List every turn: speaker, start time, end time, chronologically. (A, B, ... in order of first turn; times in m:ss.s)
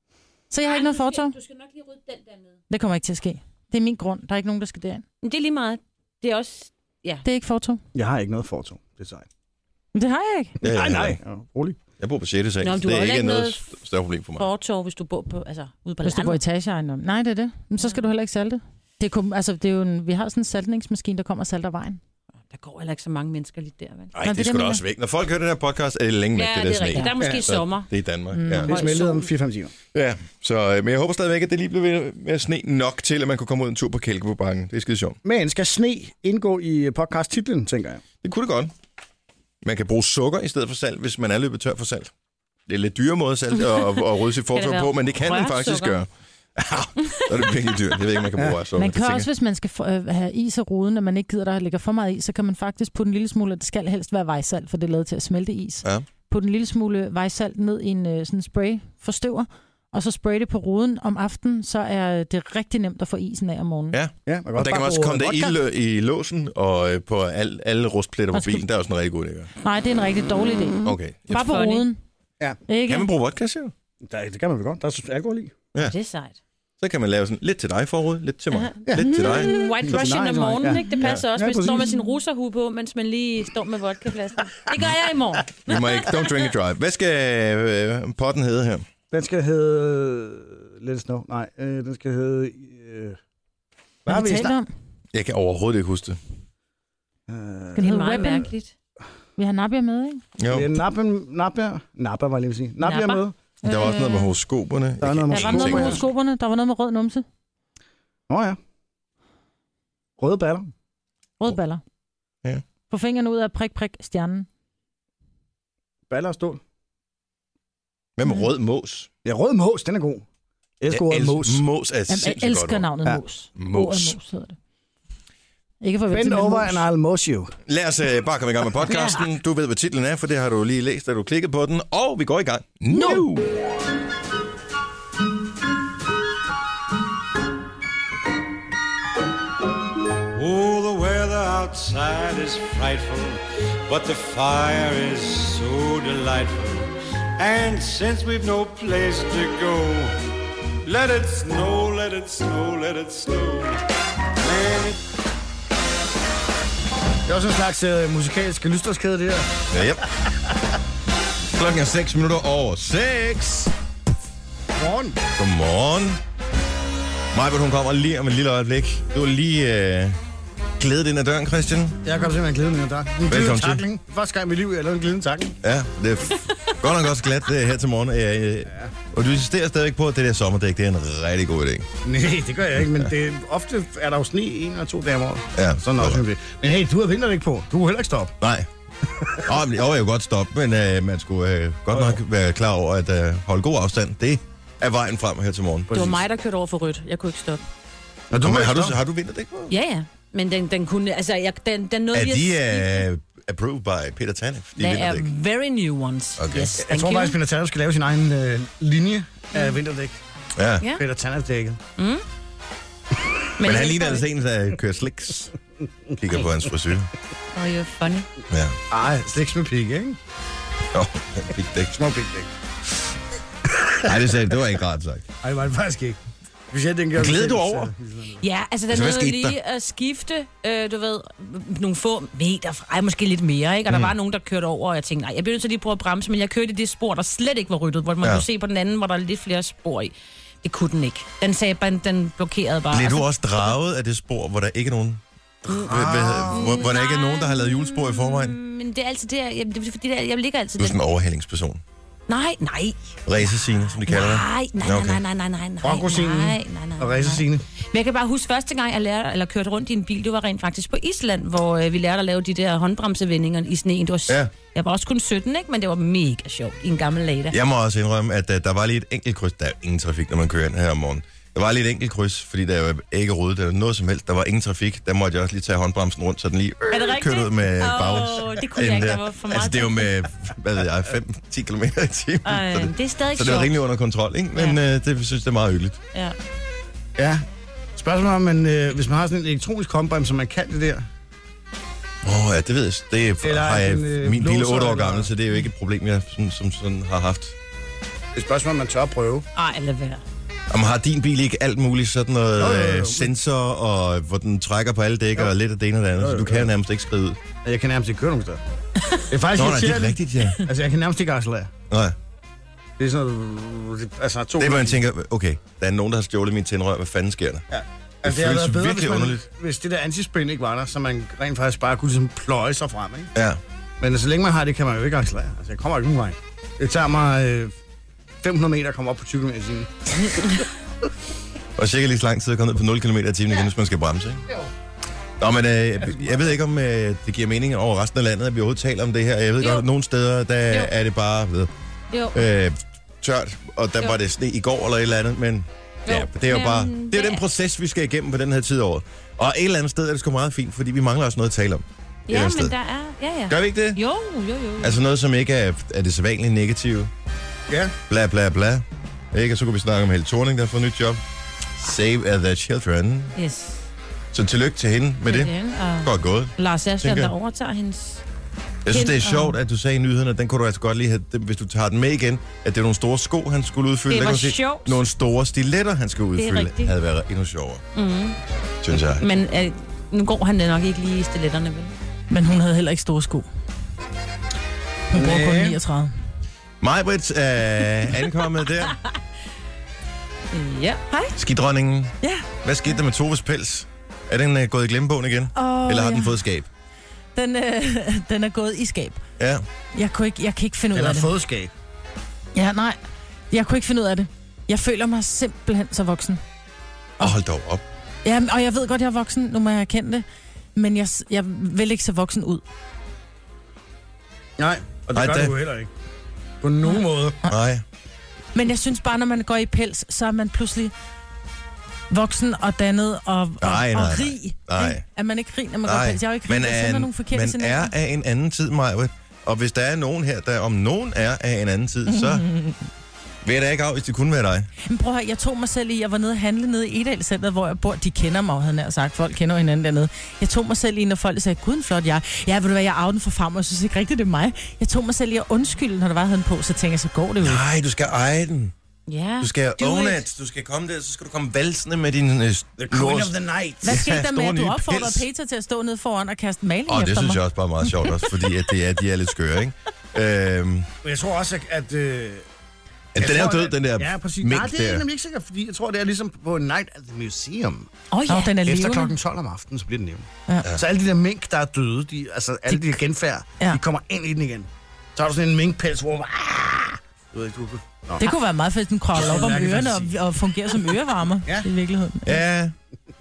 0:00.5-0:01.4 A
0:00.6-0:02.6 B
0:02.7-0:05.0 A
0:05.2-0:07.2 B
0:07.2-0:07.8 A
0:07.9-0:09.3 C
0:09.9-0:10.5 A
0:10.6-0:11.8 C
0:10.6-0:11.2 D
0:12.0-0:14.5 D
0:12.6-0:13.6 B
0:14.4-0:16.4 B
0:16.0-0:22.0 A
0:22.5-0:24.1 B
0:24.1-0:28.7 D
0:24.2-0:24.8 A
0:26.3-0:27.9 B
0:27.2-0:27.5 C
0:28.3-0:28.8 A
0:28.6-0:29.7 C
0:28.6-0:29.3 B
0:29.9-0:35.2 D
0:35.2-0:38.0 C
0:38.2-0:38.7 D
0:39.6-0:42.1 D
0:42.7-0:49.3 D
0:44.5-0:46.0 B
0:47.0-0:47.5 B
0:48.7-1:04.0 A
1:03.9-1:09.5 D
1:04.2-1:05.6 C
1:08.3-1:08.6 A
1:09.6-1:12.0 A
1:10.8-1:11.6 D
1:11.4-1:11.8 B
1:12.7-1:13.1 A
1:12.9-1:13.7 D
1:14.0-1:15.6 C
1:15.8-1:16.4 B
1:16.8-1:19.6 D
1:18.5-1:26.4 B
1:19.8-1:22.0 C
1:20.9-1:21.3 D
1:25.6-1:28.9 D
1:29.1-1:33.2 C
1:34.0-1:34.5 C
1:34.1-1:34.7 A
1:35.1-1:36.2 D
1:37.3-1:37.9 C
1:37.8-1:38.5 A
1:37.8-1:38.7 B
1:39.4-1:40.2 A
1:40.4-1:40.7 D
1:40.5-1:43.3 C
1:42.8-1:43.2 B
1:43.6-1:46.0 D
1:43.6-1:44.3 A
1:45.0-1:45.9 C
1:45.3-1:47.2 A
1:48.3-1:48.6 C
1:50.2-1:50.7 C
1:51.4-1:51.8 A
1:52.9-1:54.4 A
1:56.1-1:56.6 C
1:58.2-1:59.1 D
1:59.2-2:00.2 C
2:00.8-2:01.6 C
2:00.9-2:02.8 D
2:02.1-2:04.6 A
2:03.6-2:04.2 D
2:05.8-2:06.8 A
2:06.1-2:07.5 C
2:07.6-2:13.5 D
2:12.9-2:13.2 A
2:20.3-2:30.2 E
2:30.8-2:33.8 E
2:34.4-2:35.0 E
2:37.2-2:39.5 C
2:39.7-2:40.0 D
2:41.5-2:43.7 D
2:44.8-2:45.2 C
2:45.3-2:46.2 D
2:47.3-2:50.2 D
2:50.8-2:52.0 D
2:52.0-2:55.6 C
2:53.3-2:53.8 D
2:55.6-3:01.9 D
2:58.7-2:58.9 C
3:02.0-3:08.3 C
3:05.5-3:06.2 D
3:08.4-3:08.7 D
3:09.4-3:16.2 D
3:11.9-3:12.2 C
3:15.9-3:17.6 B
3:18.3-3:19.0 C
3:18.4-3:19.7 D
3:19.7-3:23.0 B
3:22.1-3:25.3 D
3:24.8-3:27.4 B
3:26.4-3:26.8 D
3:26.8-3:30.2 C
3:30.6-3:30.8 D
3:30.9-3:31.8 C
3:32.0-3:32.2 B
3:33.6-3:34.2 B
3:33.6-3:35.5 D
3:36.2-3:37.1 D
3:37.5-3:38.3 B
3:38.5-3:38.8 D
3:38.9-3:40.2 C
3:40.9-3:42.0 D
3:41.9-3:42.5 C
3:44.0-3:45.2 D
3:45.4-3:46.2 C
3:46.7-3:48.4 C
3:47.2-3:47.9 D
3:48.4-4:00.1 B
3:48.9-3:49.6 D
3:53.9-3:54.1 D
3:58.2-3:58.4 D
4:00.6-4:03.7 B
4:02.9-4:08.6 D
4:05.6-4:06.8 C
4:06.5-4:11.0 B
4:10.8-4:11.8 D
4:12.3-4:27.5 B
4:13.2-4:15.2 D
4:15.8-4:17.6 C
4:24.3-4:24.5 D
4:27.5-4:46.0 D
4:36.9-4:40.1 B
4:42.4-4:43.7 B
4:47.2-4:47.4 C
4:48.0-4:51.0 C
4:52.2-4:57.6 D
4:53.4-4:55.3 C
4:58.3-4:59.4 C
4:59.5-5:00.2 B
5:00.7-5:07.4 D
5:02.6-5:03.3 C
5:06.2-5:06.7 C
5:07.6-5:08.6 C
5:09.3-5:11.7 C
5:09.5-5:10.6 D
5:11.9-5:12.2 D
5:13.0-5:15.0 C
5:14.6-5:17.6 D
5:17.7-5:23.3 C
5:18.2-5:19.4 D
5:23.3-5:23.6 D
5:24.0-5:27.7 C
5:28.4-5:30.5 C
5:31.8-5:34.4 D
5:35.4-5:41.7 D
5:39.6-5:39.8 B
5:42.1-5:42.4 B
5:42.3-5:52.7 D
5:46.1-5:47.4 B
5:52.3-5:55.0 B
5:53.5-5:54.0 D
5:54.8-5:57.1 D
5:57.7-5:57.9 C
5:58.1-6:01.2 D
6:01.8-6:03.3 D
6:03.4-6:03.8 B
6:04.3-6:07.3 D
6:05.2-6:08.2 B
6:08.8-6:17.8 D
6:08.9-6:09.5 B
6:14.1-6:15.0 B
6:16.4-6:16.9 B
6:17.9-6:18.4 B
6:18.8-6:19.2 D
6:19.1-6:21.9 B
6:22.3-6:23.5 A
6:25.1-6:26.1 A
6:25.1-6:25.8 C
6:26.8-6:29.0 D
6:30.5-6:31.0 B
6:31.4-6:36.7 D
6:32.2-6:32.5 A
6:35.5-6:36.4 A
6:37.3-6:39.2 A
6:39.4-6:39.6 D
6:39.9-6:41.3 A
6:40.9-6:41.7 C
6:42.5-6:43.0 A
6:43.5-6:46.4 A
6:47.2-6:47.8 D
6:48.2-6:52.6 A
6:54.6-6:55.9 C
6:55.1-6:55.5 D
6:56.6-6:57.4 C
6:56.9-6:57.6 A
6:57.4-6:57.8 D
6:58.5-7:00.9 A
7:02.1-7:07.9 A
7:03.6-7:05.0 D
7:05.8-7:12.5 D
7:12.1-7:12.8 A
7:13.4-7:14.7 D
7:14.8-7:27.6 A
7:27.4-7:28.7 D
7:29.1-7:30.2 B
7:29.4-7:35.2 D
7:32.8-7:34.0 C
7:33.8-7:37.4 A
7:36.9-7:40.9 D
7:41.0-7:42.4 C
7:43.1-7:45.0 D
7:43.1-7:47.9 C
7:48.1-7:49.1 A
7:48.6-7:58.2 C
7:52.7-7:53.0 A
7:58.2-8:02.4 A
7:59.1-8:00.2 C
8:02.2-8:02.7 D